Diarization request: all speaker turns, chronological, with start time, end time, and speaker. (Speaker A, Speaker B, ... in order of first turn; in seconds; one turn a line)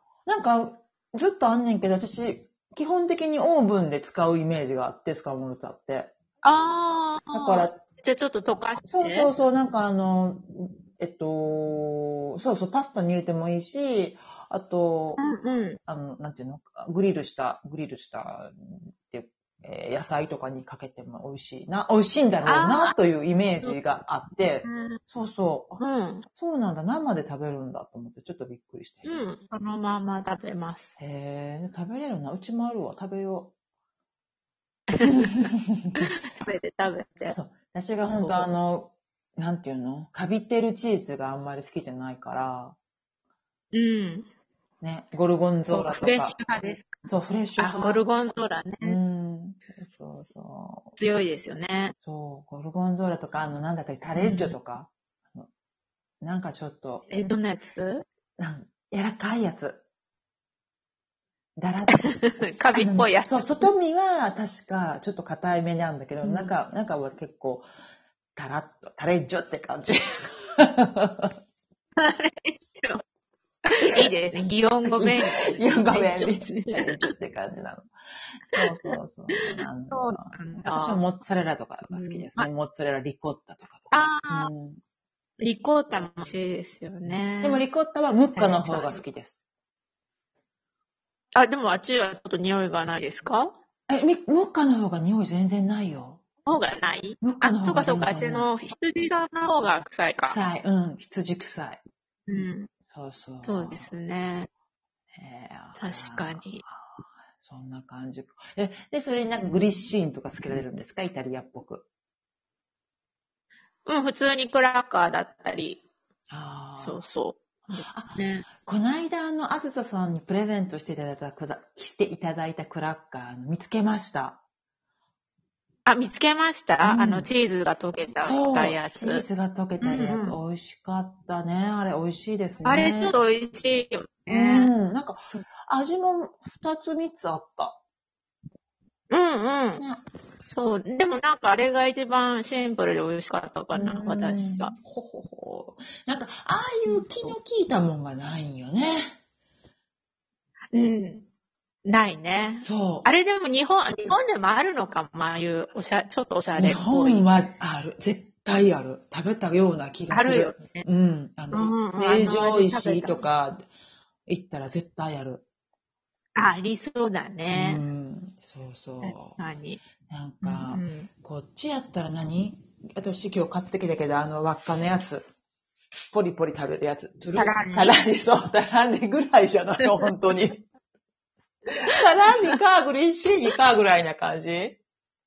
Speaker A: 0.3-6.1
Speaker B: 6.4-9.3
Speaker A: 7.3-7.8
Speaker A: 8.8-15.2
Speaker B: 15.2-15.8
Speaker A: 15.9-29.3
Speaker B: 22.4-22.9
Speaker B: 24.6-25.0
Speaker B: 25.8-26.3
Speaker B: 29.0-31.0
Speaker A: 31.0-33.5
Speaker B: 35.0-35.3
Speaker A: 35.0-35.5
Speaker B: 36.1-37.4
Speaker A: 37.3-42.8
Speaker B: 38.1-38.5
Speaker B: 43.7-44.3
Speaker A: 44.8-46.4
Speaker B: 45.7-47.0
Speaker A: 47.0-48.0
Speaker B: 47.6-49.0
Speaker A: 48.8-50.9
Speaker B: 51.0-52.0
Speaker A: 52.0-55.5
Speaker B: 54.2-54.5
Speaker A: 56.2-57.1
Speaker B: 57.1-58.0
Speaker A: 58.4-59.8
Speaker A: 61.6-67.7
Speaker B: 61.9-63.7
Speaker B: 66.2-66.5
Speaker A: 68.4-71.3
Speaker B: 72.0-73.0
Speaker B: 73.7-77.1
Speaker A: 73.8-77.9
Speaker A: 78.5-84.8
Speaker B: 79.4-81.0
Speaker B: 81.9-82.5
Speaker B: 83.9-84.5
Speaker B: 85.4-87.6
Speaker A: 87.4-89.3
Speaker B: 88.4-89.0
Speaker B: 91.3-93.5
Speaker A: 93.9-96.2
Speaker B: 96.5-100.4
Speaker A: 97.2-98.5
Speaker A: 100.2-101.8
Speaker B: 102.3-102.7
Speaker A: 102.8-103.9
Speaker B: 103.4-104.5
Speaker A: 105.2-111.8
Speaker B: 105.8-106.6
Speaker B: 113.9-115.8
Speaker A: 116.3-117.0
Speaker B: 116.8-118.5
Speaker A: 117.9-124.4
Speaker B: 125.9-129.2
Speaker A: 126.8-127.3
Speaker A: 128.2-133.2
Speaker B: 129.8-130.4
Speaker B: 132.6-134.7
Speaker A: 134.3-137.8
Speaker B: 139.1-139.8
Speaker A: 139.8-140.0
Speaker B: 140.5-144.7
Speaker A: 143.7-149.1
Speaker B: 146.9-147.3
Speaker B: 150.7-151.2
Speaker B: 151.8-157.3
Speaker A: 152.6-153.1
Speaker A: 156.6-163.7
Speaker B: 160.1-160.8
Speaker B: 161.5-163.2
Speaker A: 164.3-165.4
Speaker B: 166.4-167.8
Speaker A: 167.5-169.4
Speaker B: 169.0-169.8
Speaker A: 170.1-175.3
Speaker B: 170.4-171.1
Speaker A: 176.1-180.7
Speaker B: 177.4-178.0
Speaker A: 181.7-184.8